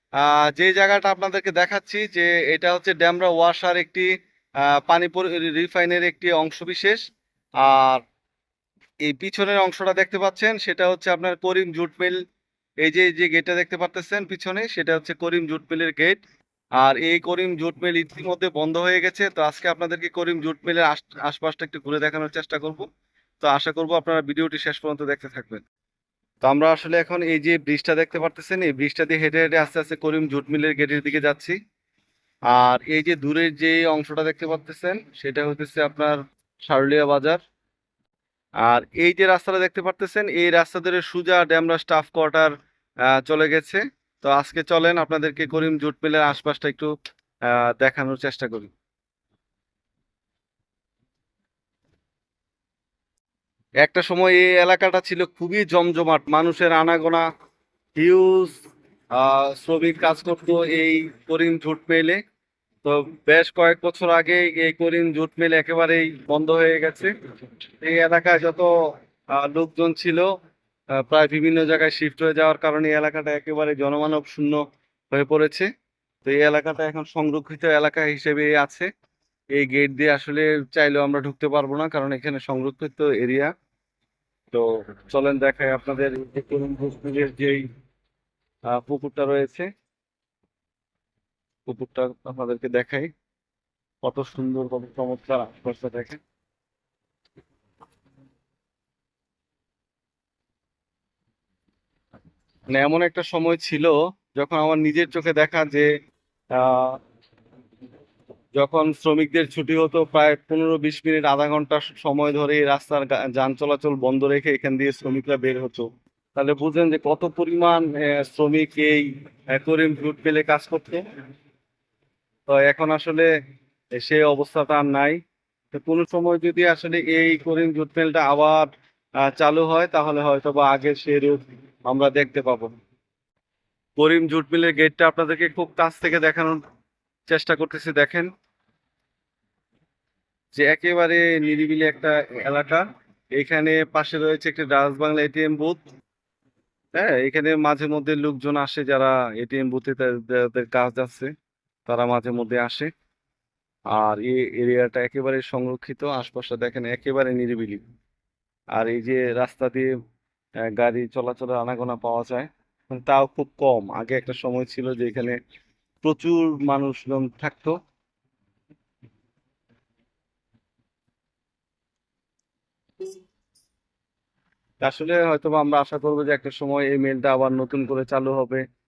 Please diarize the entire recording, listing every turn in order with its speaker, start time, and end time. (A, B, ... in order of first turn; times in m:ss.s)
0:00.2-0:04.1 A
0:04.6-0:07.0 A
0:07.6-0:08.0 A
0:09.0-0:12.2 A
0:12.8-0:16.2 A
0:16.8-0:22.9 A
0:23.4-0:25.6 A
0:26.4-0:31.6 A
0:32.5-0:37.4 A
0:38.6-0:42.5 A
0:43.1-0:46.9 A
0:47.5-0:48.7 A
0:53.8-0:57.2 A
0:57.9-0:58.6 A
0:59.1-1:02.2 A
1:02.8-1:07.1 A
1:07.8-1:08.7 A
1:09.3-1:10.3 A
1:11.0-1:15.7 A
1:16.2-1:18.9 A
1:19.5-1:23.5 A
1:24.5-1:27.7 A
1:28.7-1:29.7 A
1:31.7-1:33.1 A
1:34.0-1:36.2 A
1:42.7-1:45.9 A
1:46.5-1:47.0 A
1:48.6-2:01.0 A
2:02.5-2:03.3 A
2:04.0-2:05.2 A
2:05.7-2:08.7 A
2:09.2-2:12.7 A
2:14.0-2:16.6 A
2:17.3-2:18.3 A
2:20.6-2:25.8 A
2:26.9-2:31.3 A
2:31.8-2:32.9 A
2:33.9-2:37.8 A
2:38.8-2:39.9 A
2:40.7-2:45.4 A
2:46.0-2:47.8 A
2:54.8-2:58.6 A